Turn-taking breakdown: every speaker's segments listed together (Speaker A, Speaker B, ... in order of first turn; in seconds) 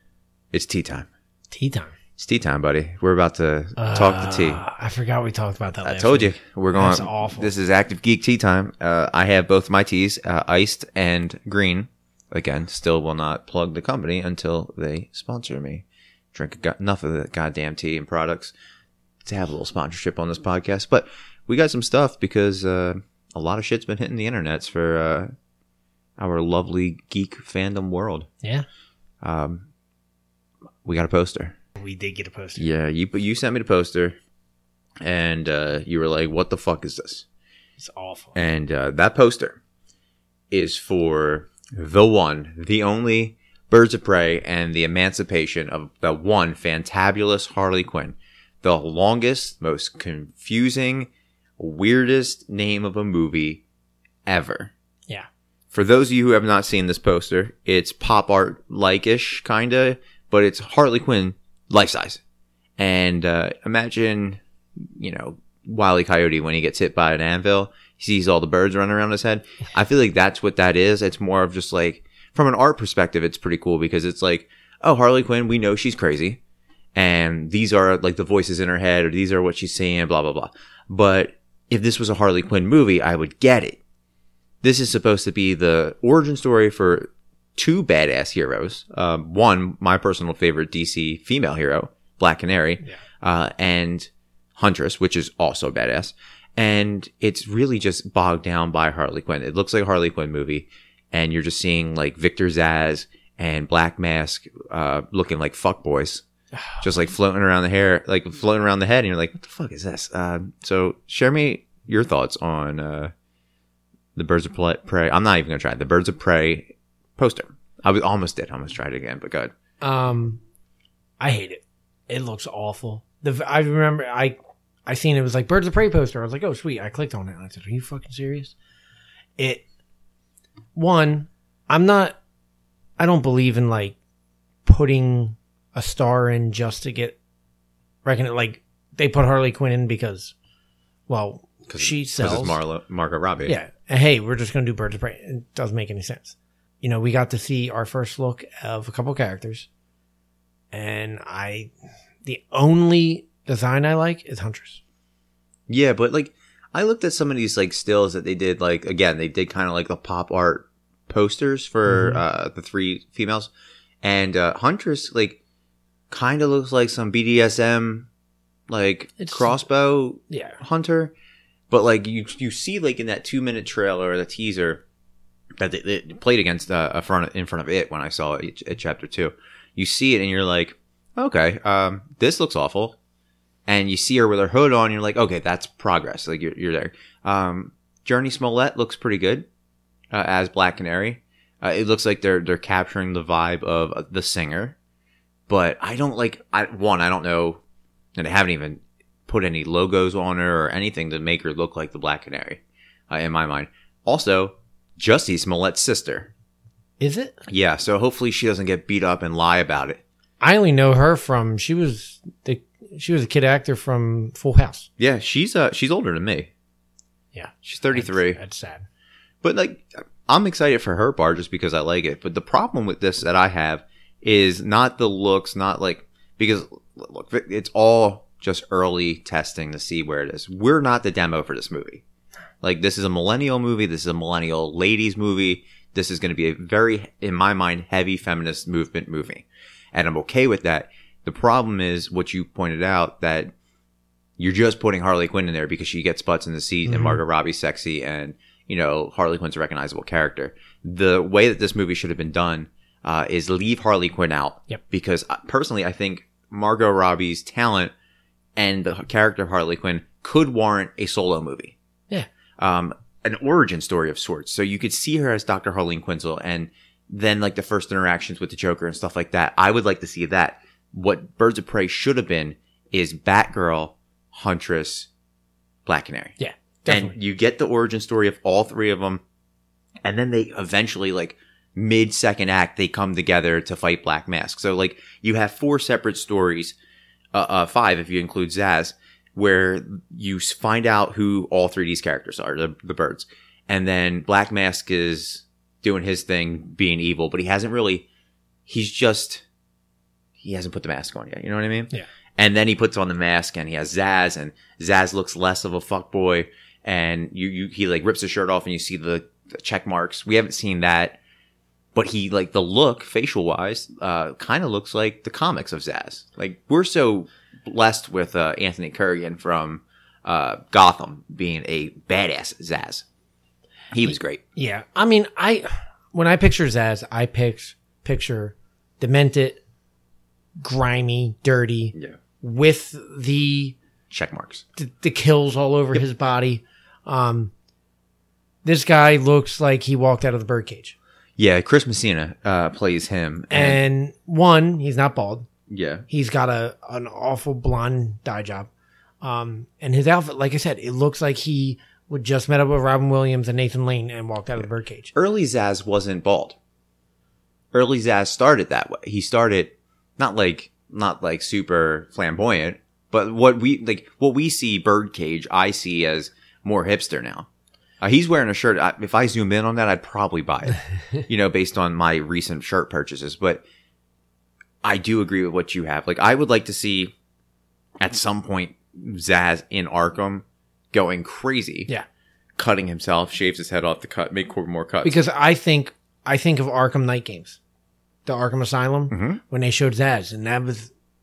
Speaker A: 0.5-1.1, 2.2-4.6, 5.8-18.5, 19.2-25.3, 26.2-28.3, 29.2-29.7, 30.8-31.6, 32.5-34.1, 35.0-37.2, 38.3-39.6, 40.5-53.6, 54.2-54.7, 55.7-62.2, 62.8-76.4, 76.9-83.8, 84.6-106.2, 106.8-113.1, 114.1-119.5, 141.7-143.5, 155.7-163.5, 164.0-165.4, 166.1-168.1, 168.7-171.1, 171.7-174.8, 175.6-182.9, 183.7-189.5, 190.1-194.8, 195.5-197.6, 198.2-206.3, 207.4-210.0, 215.0-216.5, 217.6-218.4, 219.4-232.0, 232.6-243.5, 244.4-257.9, 258.6-261.8, 262.6-275.1, 275.9-276.4, 276.9-279.2, 280.0-286.8, 287.3-298.1, 298.7-299.4, 300.4-311.2, 311.9-323.0, 323.9-324.4, 334.1-334.6, 341.4-343.8, 345.7-346.1, 355.1-356.6, 357.7-367.5, 368.0-373.6, 374.8-377.1, 378.0-381.9, 382.6-385.2, 389.1-389.4
Speaker B: 1.5-1.9, 3.8-7.5, 31.8-32.7, 37.8-38.4, 106.5-106.8, 119.8-120.4, 121.2-128.5, 129.4-129.6, 130.7-132.2, 133.0-133.9, 134.6-137.2, 138.0-140.3, 141.1-142.6, 143.4-149.7, 150.7-151.7, 152.2-154.8, 161.9-162.2, 169.2-169.6, 170.3-170.6, 207.0-207.4, 210.4-214.9, 217.3-218.8, 246.8-247.2, 276.4-277.2, 324.6-329.6, 330.6-333.8, 334.8-337.5, 338.6-340.9, 343.5-345.5, 346.1-348.7, 349.2-355.1, 385.0-387.6, 388.2-390.9